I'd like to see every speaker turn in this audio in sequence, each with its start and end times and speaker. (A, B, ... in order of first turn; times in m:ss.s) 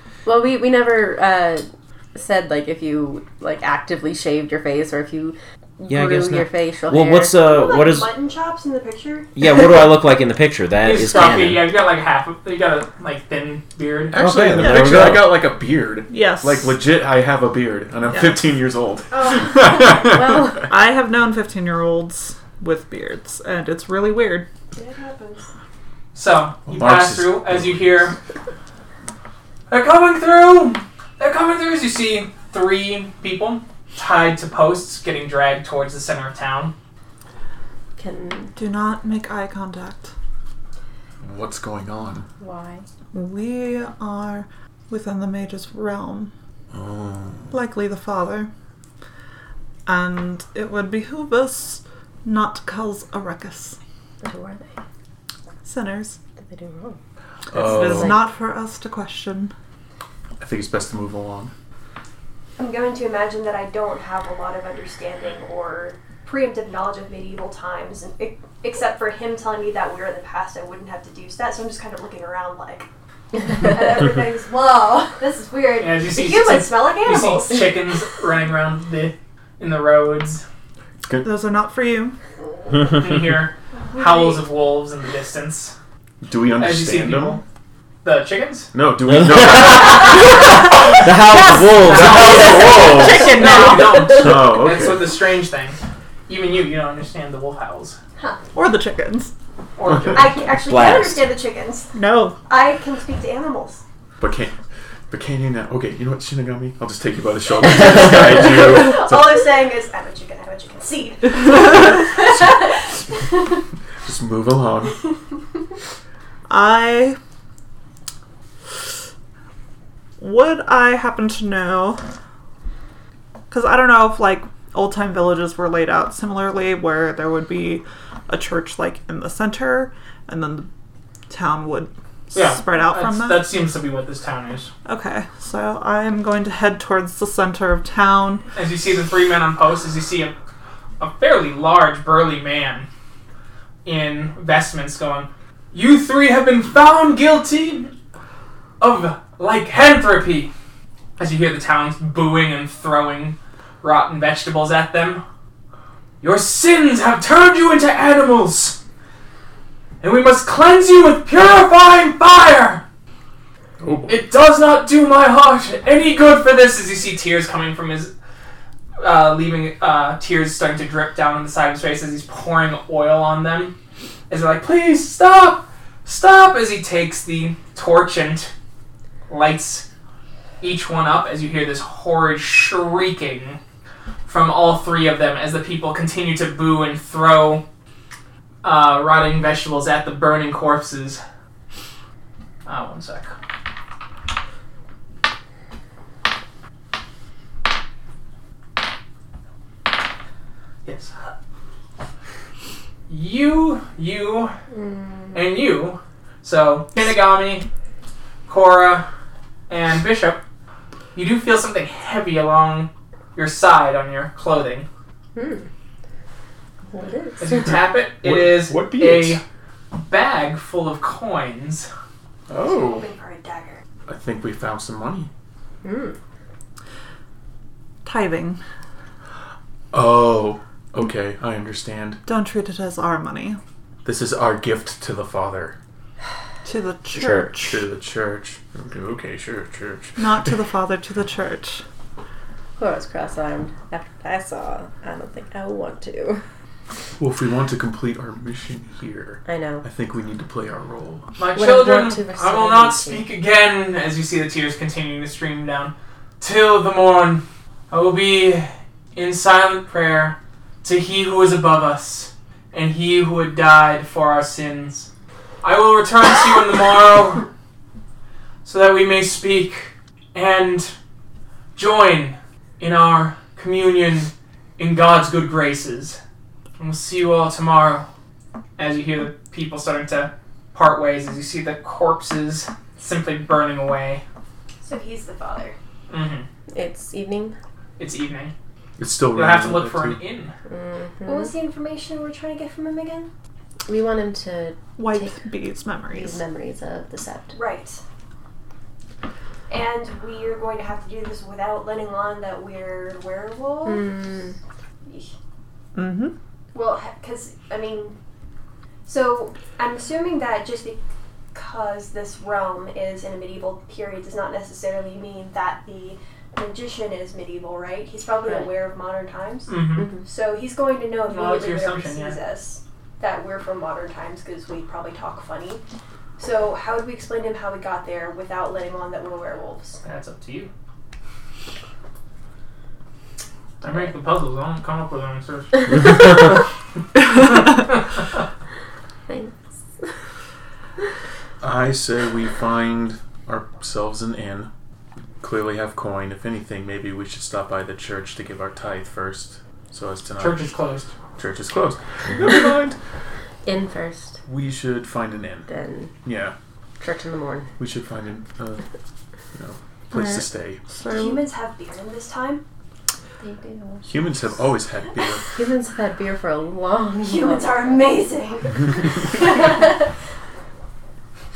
0:00.2-0:07.3 A
0:05.9-0:08.1 B
0:07.4-0:09.3 C
0:09.4-0:11.7 B
0:10.8-0:14.1 D
0:14.0-0:20.7 E
0:14.2-0:15.4 B
0:14.6-0:15.2 F
0:16.1-0:16.8 F
0:18.1-0:18.4 F
0:19.1-0:19.6 C
0:20.0-0:20.7 A
0:20.7-0:24.5 F
0:24.7-0:25.5 C
0:26.1-0:28.1 D
0:26.6-0:28.1 E
0:29.7-0:36.7 D
0:38.0-0:38.5 A
0:38.6-0:40.1 F
0:41.2-0:42.2 E
0:42.4-0:42.8 A
0:43.1-0:46.3 F
0:46.7-0:47.5 E
0:47.5-0:48.5 F
0:49.8-0:53.8 F
0:54.2-0:54.7 A
0:55.6-0:56.2 F
0:56.4-0:57.0 A
0:57.5-0:58.2 E
0:57.5-0:59.5 F
0:57.7-0:58.2 A
1:00.4-1:01.5 E
1:02.6-1:12.9 C
1:13.5-1:17.8 C
1:15.8-1:20.4 D
1:21.2-1:22.2 F
1:22.9-1:25.7 D
1:23.9-1:24.4 C
1:26.2-1:27.4 E
1:26.6-1:27.4 D
1:28.0-1:28.7 D
1:28.7-1:31.0 E
1:29.0-1:30.2 B
1:30.9-1:33.0 B
1:31.5-1:38.0 D
1:31.8-1:35.1 E
1:32.8-1:34.3 A
1:38.5-1:39.3 F
1:39.8-1:40.4 D
1:40.1-1:41.9 C
1:40.5-1:41.3 B
1:41.9-1:42.4 F
1:42.5-1:43.8 C
1:44.2-1:44.5 E
1:45.1-1:49.4 E
1:47.7-1:53.6 C
1:54.0-1:55.0 E
1:56.5-1:57.2 F
2:00.2-2:02.0 F
2:03.5-2:10.7 F
2:11.3-2:13.5 F
2:12.3-2:14.7 D
2:14.8-2:18.4 F
2:18.5-2:20.3 D
2:21.0-2:22.9 D
2:23.8-2:27.9 D
2:28.8-2:30.5 D
2:31.2-2:35.2 D
2:36.2-2:38.8 D
2:40.0-2:42.8 D
2:43.8-2:44.2 E
2:44.1-2:48.1 D
2:49.0-2:53.7 D
2:54.3-2:58.5 D
2:59.3-2:59.8 D
3:00.6-3:03.6 D
3:04.2-3:07.6 D
3:08.6-3:11.2 D
3:12.6-3:13.3 D
3:20.8-3:21.3 D
3:23.1-3:24.5 D
3:24.7-3:25.3 A
3:25.3-3:27.6 D
3:28.5-3:29.1 D
3:29.7-3:30.4 D
3:31.1-3:34.9 D
3:35.3-3:35.7 A
3:36.9-3:37.8 A
3:37.4-3:39.4 D
3:37.7-3:39.4 E
3:39.9-3:41.9 D
3:42.5-3:43.1 E
3:42.6-3:43.8 C
3:44.1-3:45.3 E
3:45.8-3:46.2 A
3:48.0-3:48.6 F
3:49.9-3:52.2 E
3:52.2-3:53.6 F
3:54.0-3:55.8 E
3:56.6-3:57.8 F
3:57.1-3:57.5 B
3:57.6-4:00.5 E
4:00.2-4:01.8 F
4:02.8-4:06.4 A
4:07.2-4:11.2 E
4:09.4-4:09.8 A
4:11.4-4:25.1 D
4:11.5-4:13.3 A
4:25.6-4:27.5 D
4:28.6-4:30.9 D
4:31.7-4:36.2 D
4:36.8-4:38.1 D
4:38.8-4:44.2 D
4:44.8-4:45.8 C
4:46.1-4:46.4 D
4:46.7-4:47.6 A
4:48.0-4:48.5 D
4:49.0-4:50.2 E
4:49.3-4:50.5 D
4:50.7-4:51.5 A
4:51.2-4:53.3 C
4:53.8-4:55.5 A
4:55.0-4:56.4 F
4:56.1-4:57.6 A
4:57.5-4:58.0 C
4:59.7-5:04.2 C
5:03.8-5:04.5 A
5:05.0-5:05.3 C
5:05.9-5:06.3 F
5:06.7-5:08.2 C
5:09.0-5:11.0 C
5:11.5-5:25.8 C
5:18.4-5:18.7 A
5:19.7-5:20.1 D
5:20.0-5:20.2 A
5:21.3-5:22.4 D
5:26.4-5:30.0 C
5:30.0-5:30.7 D
5:33.8-5:36.4 D
5:39.3-5:40.1 A
5:41.6-5:44.7 E
5:45.4-5:50.6 E
5:50.4-5:51.1 D
5:51.4-5:53.0 E
5:53.6-5:54.4 A
5:54.4-5:55.7 E
5:55.7-5:56.1 A
5:56.2-5:56.5 E
5:57.0-5:57.7 A
5:57.8-5:58.8 E
5:59.5-6:00.8 E
6:00.1-6:01.4 F
6:01.1-6:02.6 C
6:03.4-6:04.1 A
6:04.0-6:05.5 E
6:05.5-6:08.1 A
6:07.2-6:10.1 C